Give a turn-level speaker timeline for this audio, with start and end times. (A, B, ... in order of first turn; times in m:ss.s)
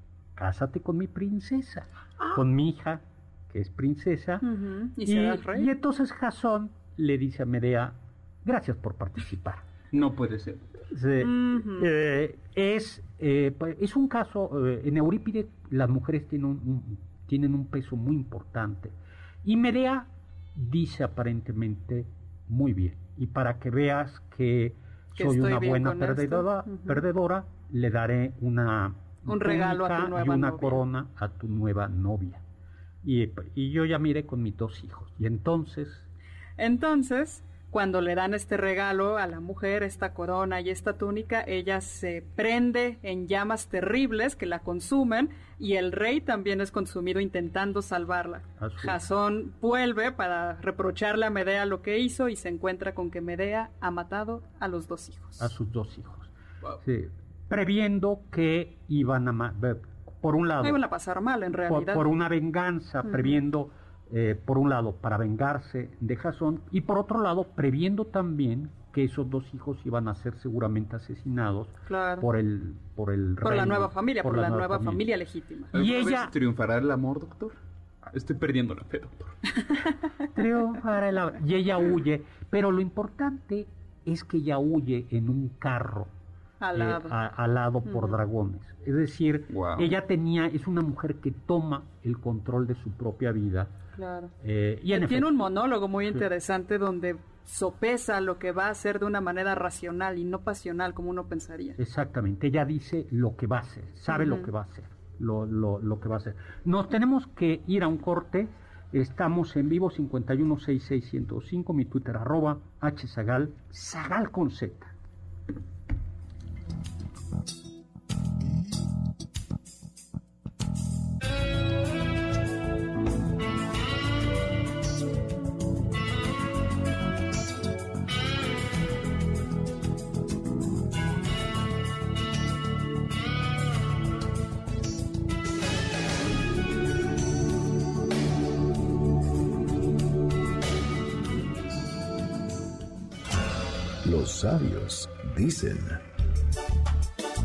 0:00.4-0:04.4 A
0:04.4-0:05.7 B
0:05.0-0:09.6 A
0:09.9-0:10.6 C
0:10.9-0:32.4 A
0:11.2-0:11.9 B
0:25.2-0:27.0 B
0:29.2-0:30.8 B
0:33.0-0:36.1 A
0:36.6-0:55.5 B
0:48.6-0:49.0 A
0:55.4-1:00.8 A
1:00.6-1:02.1 B
1:01.7-1:15.0 A
1:03.1-1:03.4 B
1:11.9-1:12.3 B
1:13.4-1:15.7 B
1:15.7-1:16.3 A
1:15.7-1:17.6 C
1:18.1-1:19.4 C
1:20.3-1:26.1 A
1:26.6-1:27.1 B
1:26.7-1:33.7 A
1:27.8-1:28.2 B
1:29.5-1:29.9 C
1:33.9-1:34.3 B
1:34.4-1:35.5 A
1:34.9-1:41.8 B
1:41.8-1:54.9 A
1:44.1-1:44.5 B
2:24.0-2:26.0 D